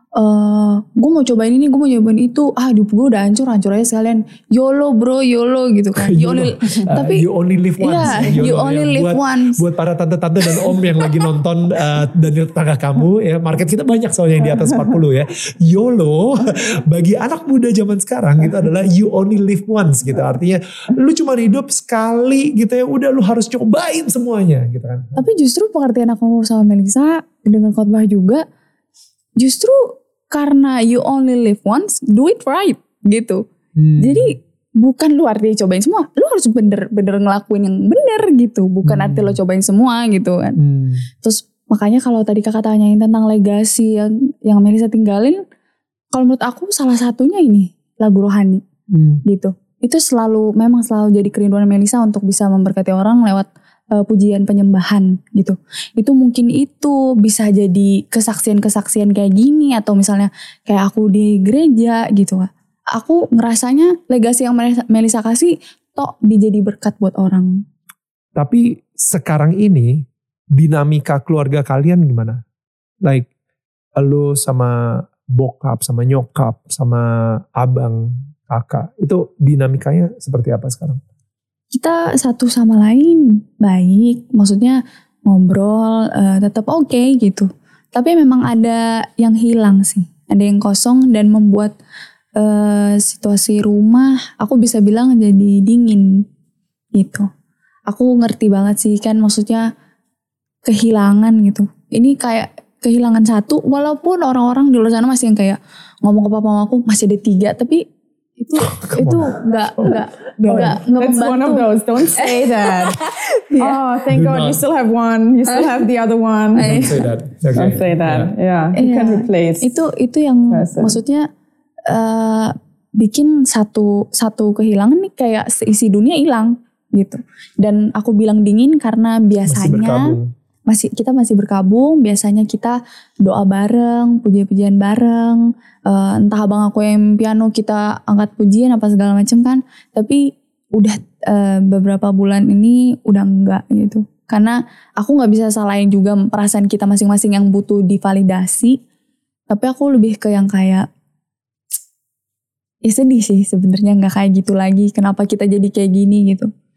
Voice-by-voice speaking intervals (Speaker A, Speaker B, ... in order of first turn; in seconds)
Speaker A: 0.1-7.2, 7.8-9.6, 25.1-28.4, 29.4-33.4, 34.0-40.6, 41.2-45.4, 46.1-48.6, 49.2-67.5, 81.7-91.7, 92.3-96.2, 96.9-97.3, 97.9-99.7, 100.6-107.8, 108.4-113.8, 115.5-115.8, 116.5-117.1, 118.7-121.2, 121.9-130.1, 130.7-148.8, 149.5-150.9, 152.8-156.5
Speaker B: 5.9-25.2, 33.8-34.4, 38.8-39.4, 40.6-41.0, 48.9-49.2, 68.3-72.4, 74.0-81.0, 108.7-110.8, 114.1-114.6, 116.6-118.3, 129.4-130.3
Speaker C: 110.4-116.9, 117.5-119.8, 120.5-121.0